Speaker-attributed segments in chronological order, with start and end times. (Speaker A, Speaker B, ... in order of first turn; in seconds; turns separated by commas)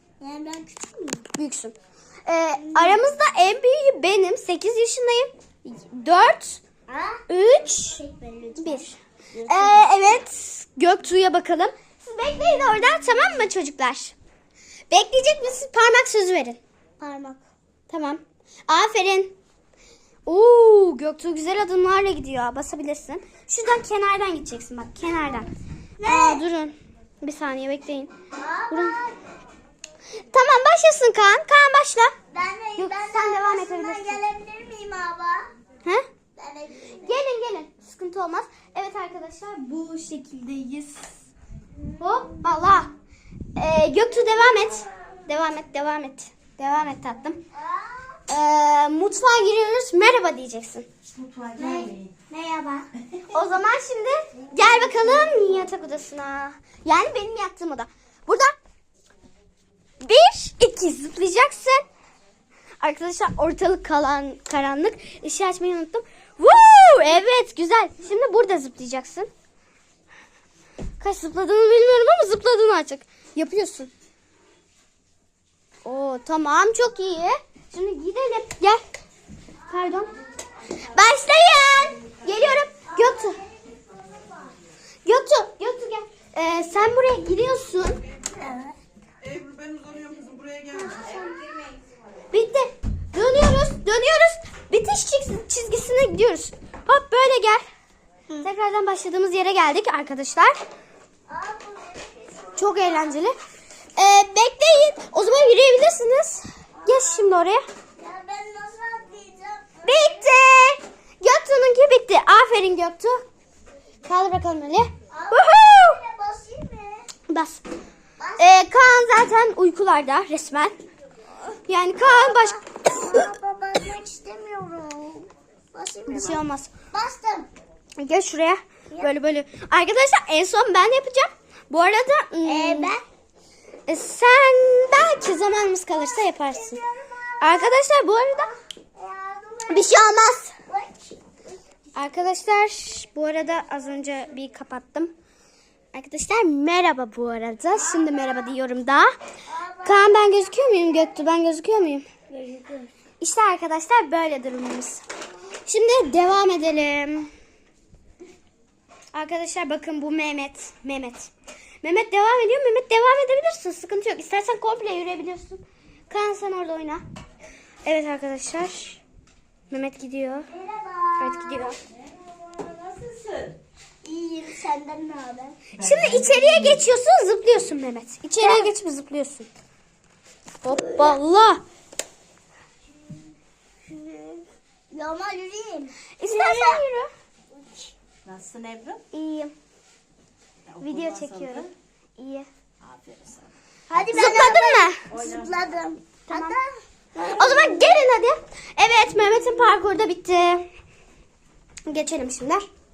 Speaker A: 0.2-1.3, Speaker B: 1.4-1.8, Speaker B: 2.3-6.6, Speaker A: 2.6-3.0, Speaker A: 6.9-7.2, Speaker B: 7.3-8.0, Speaker A: 8.0-8.9, Speaker B: 8.6-14.2, Speaker B: 14.9-16.6, Speaker A: 17.0-17.4, Speaker B: 17.9-19.3, Speaker B: 20.3-25.5, Speaker A: 26.0-26.4, Speaker B: 26.0-28.1, Speaker A: 28.4-29.2, Speaker B: 28.7-29.0, Speaker B: 30.3-32.1, Speaker A: 32.3-35.5, Speaker B: 32.8-34.2, Speaker A: 36.4-37.1, Speaker B: 37.0-41.1, Speaker B: 42.0-42.9, Speaker B: 43.6-47.4, Speaker A: 47.5-48.2, Speaker B: 48.3-50.9, Speaker C: 51.1-52.1, Speaker A: 51.6-52.9, Speaker B: 53.3-58.5, Speaker B: 60.0-61.8, Speaker B: 62.8-69.3, Speaker B: 71.0-73.9, Speaker B: 75.8-78.8, Speaker B: 79.7-80.1, Speaker B: 80.8-83.4, Speaker A: 82.9-84.6, Speaker B: 85.1-88.0, Speaker A: 88.3-88.8, Speaker C: 89.3-91.3, Speaker A: 90.8-91.3, Speaker B: 92.3-97.6, Speaker B: 98.4-100.5, Speaker A: 101.3-103.2, Speaker B: 102.6-103.3, Speaker B: 104.0-107.6, Speaker A: 106.8-107.3, Speaker A: 108.0-110.0, Speaker B: 109.8-113.2, Speaker B: 114.1-116.0, Speaker A: 115.1-117.1, Speaker B: 117.3-117.6, Speaker A: 118.2-118.5, Speaker B: 118.4-120.8, Speaker B: 121.7-122.6, Speaker A: 122.0-127.5, Speaker B: 126.1-126.7, Speaker B: 128.0-132.9, Speaker A: 132.4-133.0, Speaker B: 133.9-136.8, Speaker A: 136.2-137.8, Speaker B: 137.4-138.5, Speaker A: 139.0-140.1, Speaker B: 139.7-140.5, Speaker A: 140.7-141.2, Speaker B: 141.9-145.1, Speaker B: 145.9-149.1, Speaker A: 149.5-151.1, Speaker B: 149.8-152.1, Speaker A: 152.3-152.9, Speaker B: 153.2-155.0, Speaker B: 155.7-157.3, Speaker B: 159.1-161.3, Speaker B: 161.8-167.0, Speaker B: 167.8-169.0, Speaker B: 169.7-170.5, Speaker A: 170.5-171.7, Speaker B: 171.2-171.8, Speaker C: 172.6-173.5, Speaker A: 174.0-175.6, Speaker B: 175.8-179.5, Speaker C: 175.9-176.6, Speaker A: 178.4-178.7, Speaker B: 180.6-181.6, Speaker A: 180.8-181.2, Speaker A: 183.8-186.8, Speaker B: 186.2-187.1, Speaker A: 187.6-187.9, Speaker C: 188.2-189.0, Speaker B: 189.1-189.5, Speaker C: 190.8-191.6, Speaker B: 190.8-192.5, Speaker C: 192.8-193.5, Speaker A: 193.9-197.8, Speaker B: 194.1-195.0, Speaker C: 195.1-195.6, Speaker B: 196.3-196.6, Speaker B: 197.2-200.7, Speaker B: 201.9-202.7